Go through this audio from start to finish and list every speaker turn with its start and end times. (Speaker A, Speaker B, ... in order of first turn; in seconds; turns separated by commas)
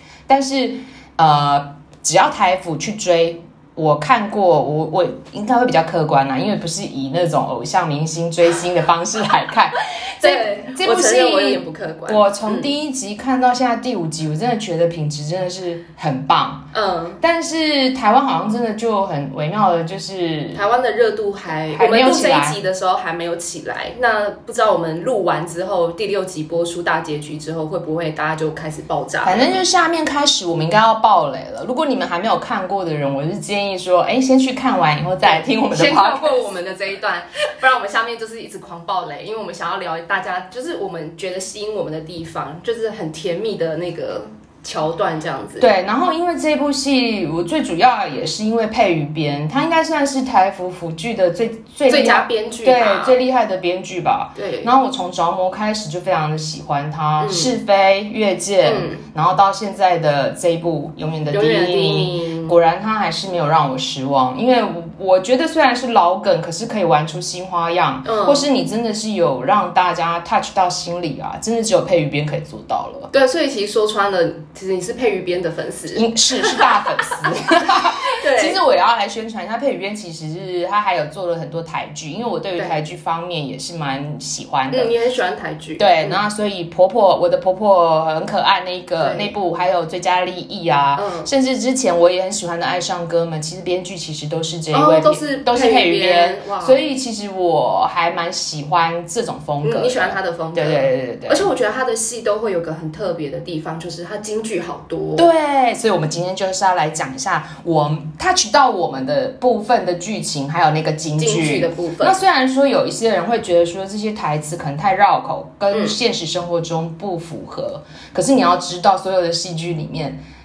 Speaker A: 0.3-16.7, Speaker B: 10.2-12.7, Speaker B: 16.7-17.2, Speaker A: 17.2-20.6, Speaker B: 20.5-29.6, Speaker A: 21.7-22.6, Speaker A: 29.2-36.5, Speaker B: 35.2-45.6, Speaker A: 45.6-73.1, Speaker B: 51.9-53.1, Speaker B: 54.4-54.7, Speaker B: 57.2-57.5, Speaker B: 58.6-59.0, Speaker B: 61.3-62.5, Speaker B: 68.0-68.5, Speaker B: 73.1-77.2, Speaker A: 75.9-84.9, Speaker B: 77.8-78.6, Speaker B: 84.7-86.2, Speaker A: 85.8-101.5, Speaker B: 89.0-89.3, Speaker B: 90.9-91.3, Speaker B: 94.7-96.8, Speaker B: 99.6-105.3, Speaker A: 105.2-120.2, Speaker B: 111.2-112.2, Speaker B: 115.7-116.0